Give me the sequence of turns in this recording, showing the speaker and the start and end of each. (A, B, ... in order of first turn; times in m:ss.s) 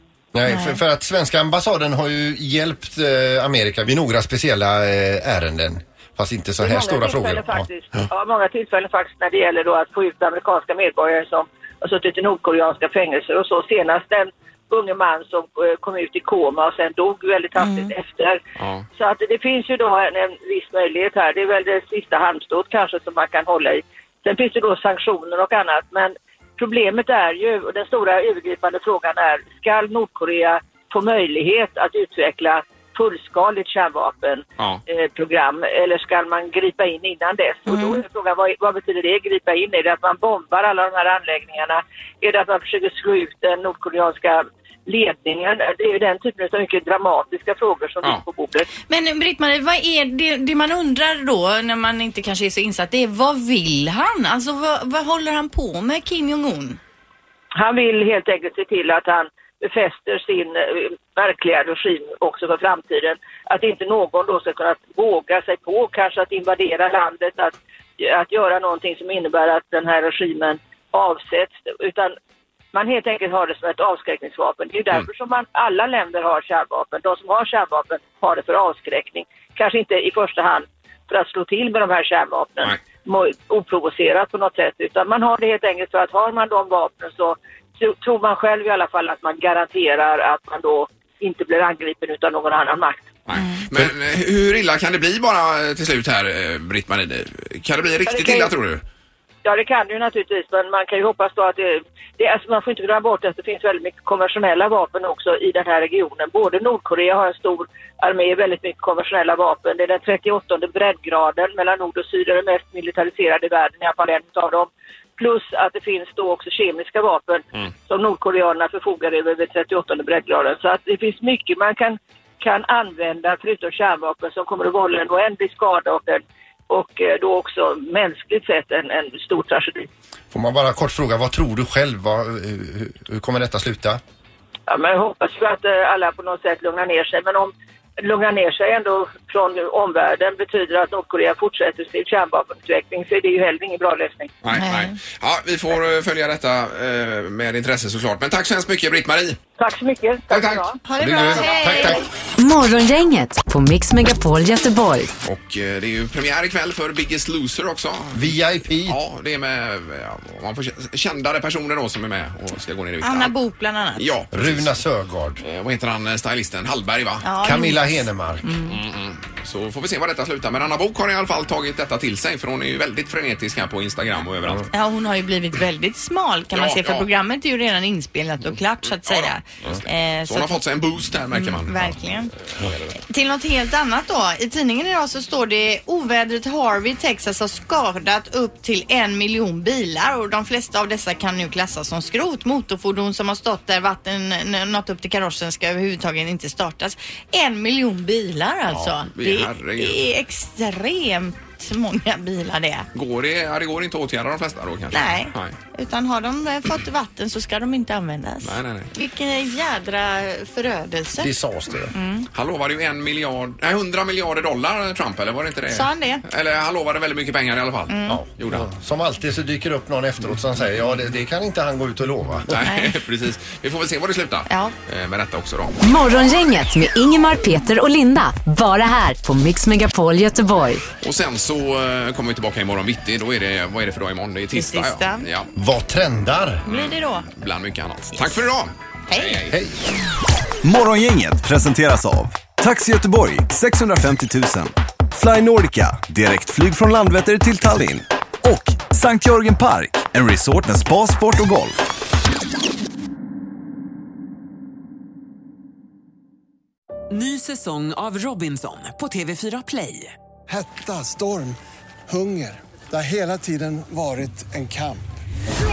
0:00.3-0:07.7 A
0:00.5-0:00.8 B
0:06.6-0:18.4 C
0:17.6-0:17.9 B
0:18.6-0:18.8 D
0:18.9-0:48.7 C
0:37.7-0:38.0 B
0:48.9-0:56.8 B
0:57.6-1:12.1 C
1:12.7-1:33.1 C
1:33.3-1:38.8 D
1:33.3-1:33.6 B
1:38.1-1:38.5 C
1:39.4-2:09.9 C
2:10.3-2:14.0 A
2:14.7-2:24.3 C
2:24.4-2:29.4 D
2:24.5-2:24.9 B
2:29.6-2:30.8 C
2:30.3-2:31.5 D
2:30.8-2:32.1 B
2:31.0-2:32.0 A
2:32.4-2:35.1 E
2:35.2-2:38.3 D
2:38.1-2:39.0 A
2:38.8-2:43.3 D
2:43.0-2:44.1 B
2:44.0-2:44.8 D
2:44.3-2:45.4 A
2:45.4-2:47.2 D
2:47.2-2:48.8 B
2:47.4-2:48.6 A
2:48.6-2:54.7 D
2:54.7-3:00.6 B
2:56.5-2:57.1 D
2:58.8-3:02.0 D
3:01.3-3:02.3 B
3:02.5-3:03.0 D
3:03.0-3:22.9 B
3:18.7-3:20.0 D
3:22.9-3:25.6 D
3:24.9-3:31.3 B
3:28.4-3:28.9 D
3:31.2-3:31.9 A
3:31.9-3:32.3 B
3:32.3-3:38.7 D
3:35.7-3:36.2 B
3:37.9-3:38.2 B
3:38.1-3:42.4 A
3:42.5-3:45.8 D
3:42.5-3:42.9 B
3:44.5-3:44.7 B
3:45.8-3:50.8 E
3:51.0-3:55.5 D
3:54.5-3:55.3 B
3:55.6-3:56.6 A
3:56.6-3:59.5 D
3:56.7-3:57.3 B
3:59.1-3:59.5 B
3:59.5-3:59.8 A
4:00.6-4:11.8 F
4:17.1-4:20.1 G
4:20.5-4:21.6 H
4:22.1-4:25.0 H